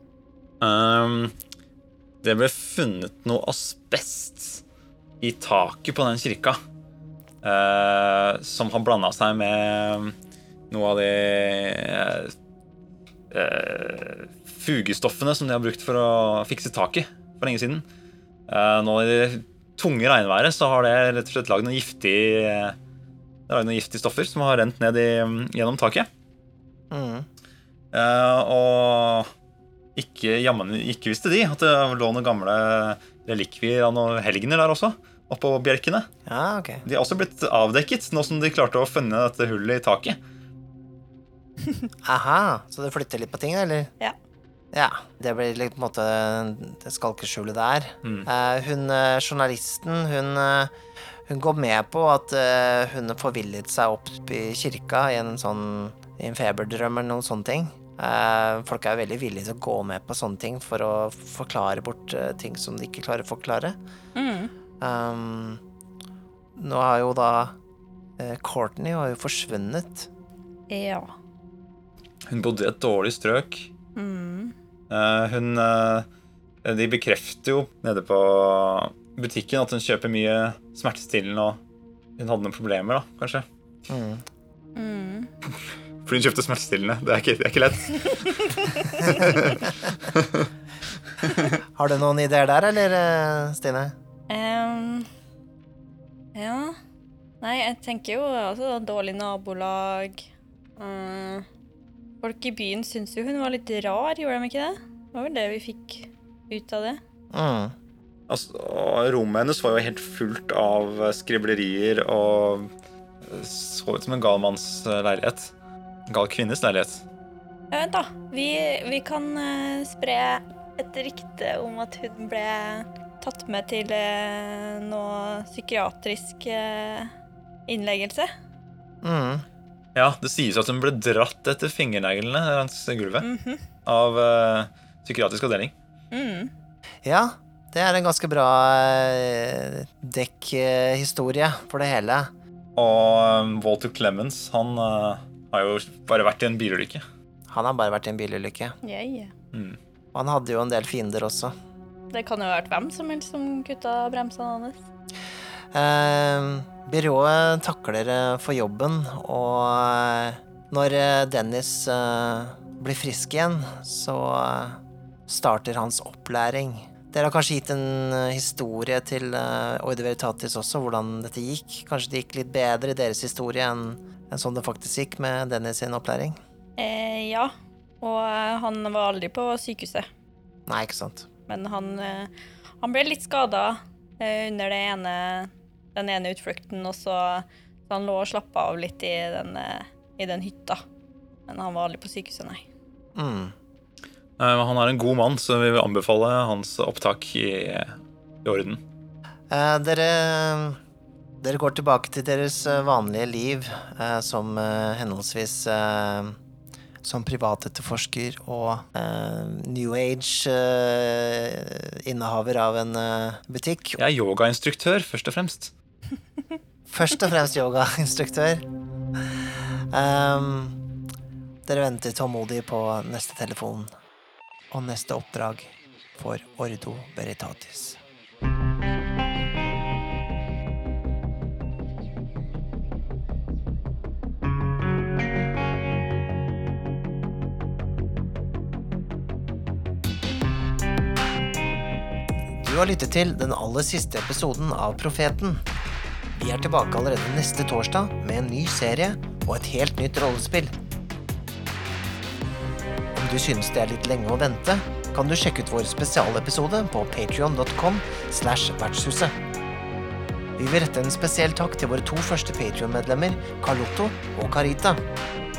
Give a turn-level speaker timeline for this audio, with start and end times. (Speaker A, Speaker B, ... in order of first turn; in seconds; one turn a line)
Speaker A: 0.6-1.3
Speaker A: 2.2-4.6
Speaker A: 5.2-6.6
Speaker A: 7.4-10.1
Speaker A: 10.7-12.3
Speaker A: 13.3-17.8
Speaker A: 18.5-22.8
Speaker A: 23.5-26.1
Speaker B: 26.9-27.3
Speaker A: 27.9-29.3
Speaker A: 29.9-36.1
Speaker B: 36.2-36.8
Speaker A: 36.9-40.2
Speaker B: 42.0-43.9
Speaker B: 44.7-50.7
Speaker B: 51.3-63.8
Speaker C: 64.1-64.5
Speaker B: 64.8-65.6
Speaker B: 66.6-67.5
Speaker B: 68.2-70.1
Speaker C: 70.7-71.1
Speaker A: 72.3-73.7
Speaker C: 74.0-74.5
Speaker A: 74.9-76.0
Speaker A: 76.6-81.6
Speaker A: 82.2-83.4
Speaker B: 83.9-84.2
Speaker C: 84.7-85.3
Speaker A: 86.0-90.5
Speaker C: 88.5-89.6
Speaker B: 91.6-93.9
Speaker C: 94.3-95.1
Speaker C: 96.3-96.8
Speaker C: 97.4-100.2
Speaker C: 100.8-101.5
Speaker C: 102.2-107.0
Speaker B: 107.3-107.7
Speaker A: 108.3-112.7
Speaker A: 113.2-115.5
Speaker A: 116.1-117.0
Speaker C: 117.7-127.1
Speaker C: 127.7-128.3
Speaker B: 129.0-129.4
Speaker A: 129.9-133.3
Speaker C: 133.2-133.7
Speaker A: 133.8-135.7
Speaker C: 136.1-136.5
Speaker B: 137.0-142.3
Speaker A: 142.8-147.0
Speaker B: 147.5-148.8
Speaker C: 148.8-149.3
Speaker A: 149.5-149.8
Speaker B: 150.1-151.5
Speaker C: 152.1-154.8
Speaker B: 155.7-176.4
Speaker C: 176.8-180.1
Speaker B: 180.7-181.3
Speaker C: 181.5-190.8
Speaker C: 191.5-192.6
Speaker B: 193.1-193.5
Speaker A: 194.4-198.8
Speaker B: 199.5-200.8
Speaker B: 201.4-206.4
Speaker B: 207.0-214.0
Speaker A: 214.0-215.7
Speaker B: 216.9-218.6
Speaker B: 219.9-220.8
Speaker B: 221.7-223.9
Speaker B: 224.7-228.0
Speaker B: 242.6-245.6
Speaker B: 246.4-250.7
Speaker B: 253.1-259.3
Speaker B: 260.6-265.0